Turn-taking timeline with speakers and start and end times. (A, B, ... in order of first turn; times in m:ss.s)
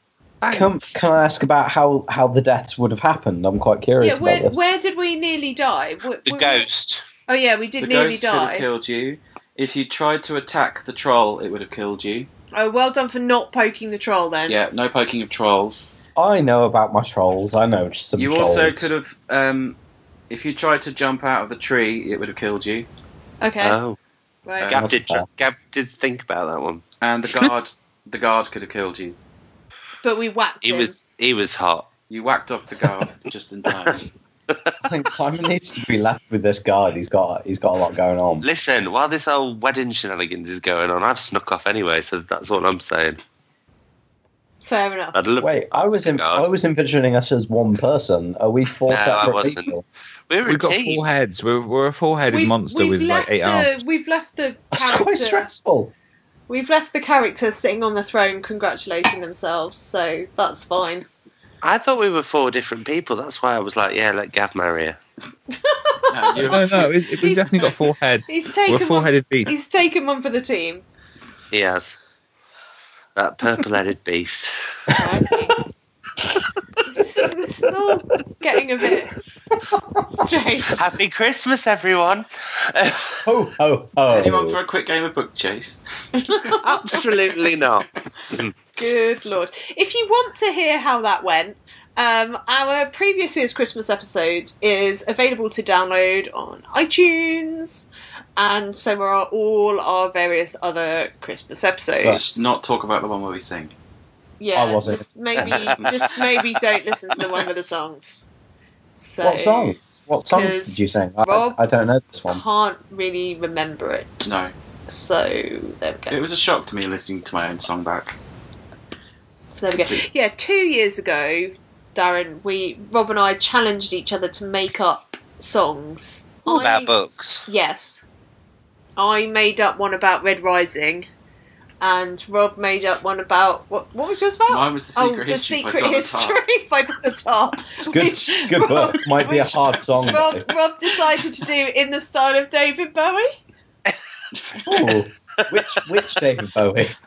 0:00.4-0:00.8 A
0:00.5-0:04.6 B
0:04.0-0:06.6 C
0:06.2-0:07.0 A
0:07.3-0:08.6 C
0:07.8-0:12.3 D
0:12.5-0:14.6 C
0:14.5-0:15.8 D
0:16.2-0:18.9 B
0:18.2-0:19.8 D
0:20.3-0:22.9 D
0:23.4-0:23.8 C
0:23.6-0:24.0 A
0:24.4-0:24.7 C
0:24.7-0:26.8 A
0:24.7-0:25.3 B
0:27.0-0:29.2 D
0:30.0-0:31.0 C
0:30.6-0:31.9 A
0:32.1-0:34.1 D
0:34.8-0:38.4 B
0:38.4-0:43.2 A
0:44.6-0:45.2 C
0:45.1-0:46.4 A
0:45.4-0:49.8 B
0:48.9-0:49.7 A
0:50.3-0:51.0 A
0:50.4-0:53.8 E
0:52.3-0:55.5 C
0:54.7-0:55.9 B
0:56.5-1:01.1 C
1:01.6-1:05.0 A
1:05.5-1:10.8 C
1:06.1-1:06.9 D
1:06.4-1:09.5 E
1:11.5-1:12.0 A
1:13.1-1:14.5 A
1:14.9-1:15.5 C
1:16.9-1:19.1 C
1:19.5-1:20.0 B
1:20.1-1:20.8 C
1:20.7-1:23.2 A
1:23.2-1:24.6 B
1:24.1-1:25.8 D
1:26.2-1:27.0 C
1:26.6-1:28.5 A
1:28.8-1:42.5 C
1:42.0-1:43.7 D
1:44.4-1:48.2 C
1:44.5-1:45.4 B
1:45.4-1:46.1 A
1:45.8-1:46.2 D
1:49.0-1:49.8 C
1:49.2-1:52.4 B
1:50.3-1:51.6 C
1:52.3-1:54.3 C
1:54.2-1:54.5 D
1:54.9-1:56.2 C
1:56.1-1:58.2 D
1:59.5-2:06.9 C
1:59.8-2:00.0 D
2:06.4-2:07.4 A
2:07.5-2:08.0 C
2:09.0-2:11.1 C
2:11.8-2:23.3 C
2:14.5-2:16.4 D
2:17.8-2:20.5 B
2:24.6-2:27.0 B
2:25.4-2:25.6 A